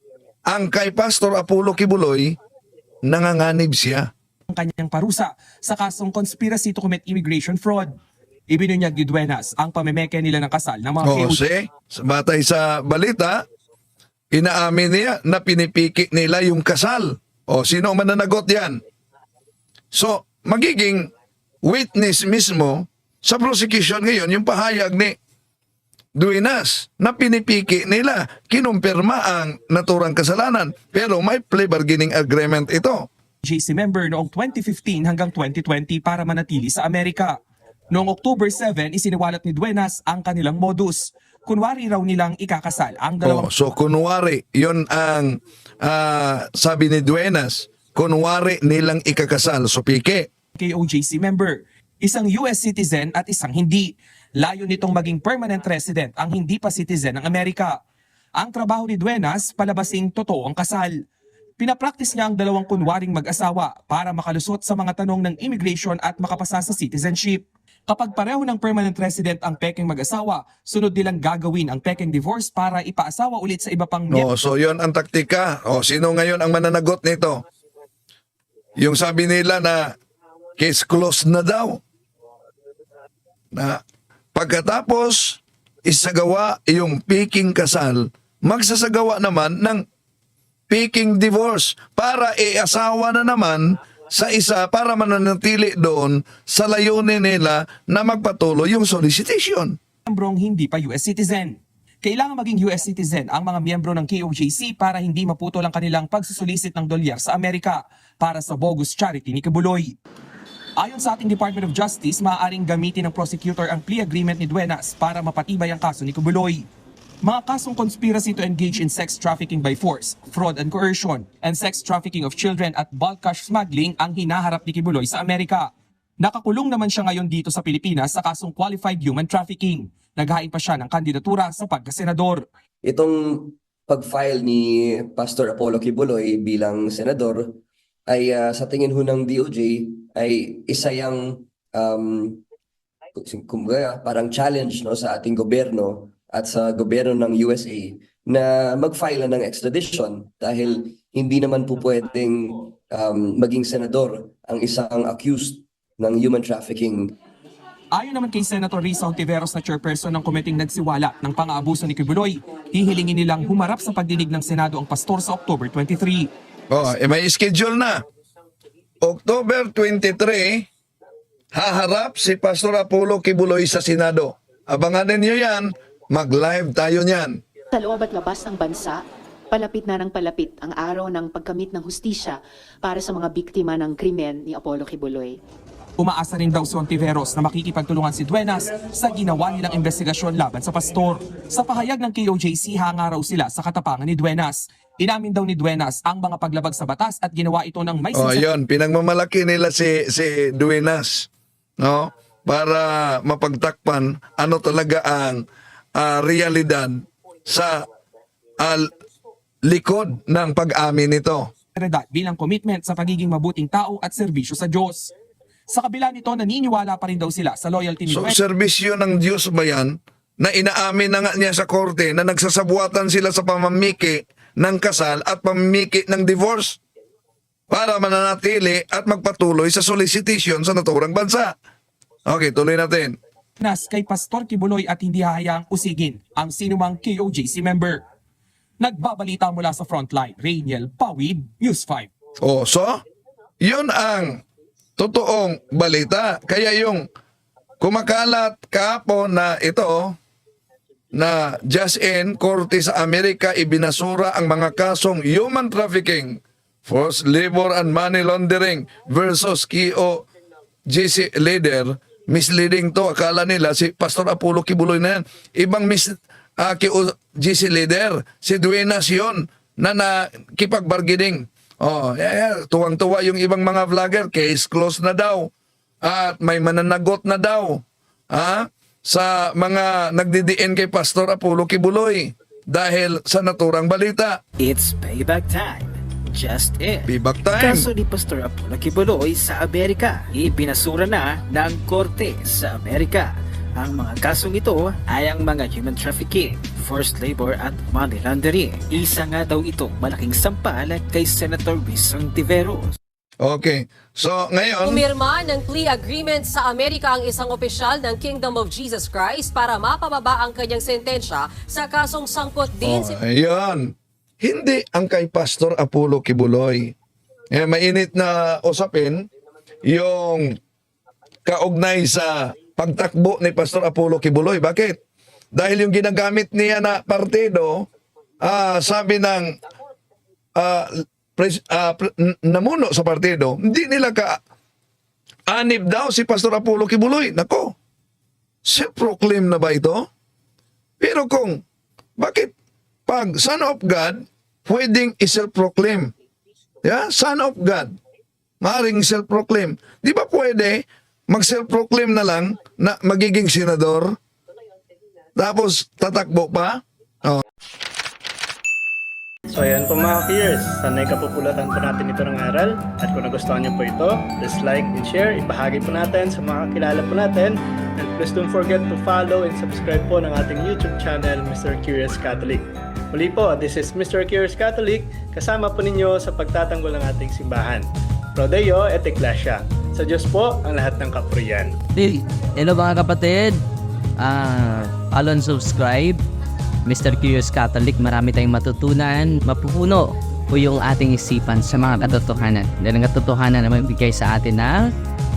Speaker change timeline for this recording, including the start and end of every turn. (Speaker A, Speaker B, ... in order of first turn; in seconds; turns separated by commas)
Speaker A: 0.5-2.4, Speaker A: 3.1-4.1, Speaker B: 4.5-7.9, Speaker B: 8.5-11.4, Speaker A: 11.0-13.4, Speaker A: 14.3-18.8, Speaker A: 19.9-21.1, Speaker A: 21.6-25.2, Speaker A: 26.1-33.1, Speaker B: 33.4-37.4, Speaker B: 37.9-43.5, Speaker A: 43.2-50.3, Speaker B: 50.6-57.8, Speaker B: 58.4-60.9, Speaker B: 61.6-74.3, Speaker A: 74.1-77.4, Speaker A: 78.8-79.9, Speaker A: 80.6-81.8, Speaker A: 83.5-83.8, Speaker A: 84.3-89.8, Speaker A: 90.7-99.8, Speaker B: 100.1-110.0, Speaker B: 110.8-116.7, Speaker B: 117.2-125.7, Speaker B: 126.2-132.4, Speaker C: 132.8-137.6, Speaker C: 138.1-142.4, Speaker C: 143.1-157.1, Speaker B: 157.9-166.3, Speaker A: 166.7-168.0, Speaker A: 169.0-170.7, Speaker A: 171.5-177.4, Speaker D: 177.7-185.4, Speaker B: 186.0-198.5, Speaker A: 198.1-201.3, Speaker A: 201.8-205.4, Speaker A: 205.9-207.8, Speaker A: 208.6-208.9, Speaker A: 209.7-211.5, Speaker B: 211.8-215.1, Speaker B: 215.7-218.4, Speaker A: 218.1-226.8, Speaker A: 227.7-231.5, Speaker A: 232.2-233.2, Speaker B: 233.6-238.0, Speaker B: 238.8-242.1, Speaker A: 242.4-243.0, Speaker A: 243.6-244.4, Speaker A: 245.0-247.1, Speaker A: 247.8-250.2, Speaker A: 251.1-260.2, Speaker A: 260.9-275.5, Speaker A: 276.0-284.4, Speaker E: 284.6-302.9, Speaker A: 287.1-287.9, Speaker A: 303.4-305.0, Speaker F: 304.8-313.2, Speaker A: 312.8-316.9, Speaker A: 317.5-319.3, Speaker A: 319.8-320.5, Speaker A: 321.4-325.0, Speaker A: 325.5-327.9, Speaker A: 328.4-329.6, Speaker A: 330.6-334.4, Speaker A: 335.5-337.7, Speaker A: 338.6-340.1, Speaker A: 341.0-341.6, Speaker A: 342.2-342.5, Speaker A: 343.1-346.1, Speaker A: 346.8-347.9, Speaker A: 348.6-354.1, Speaker A: 355.4-357.4, Speaker G: 359.5-381.7, Speaker H: 382.0-383.6, Speaker H: 384.2-386.2, Speaker H: 386.9-394.9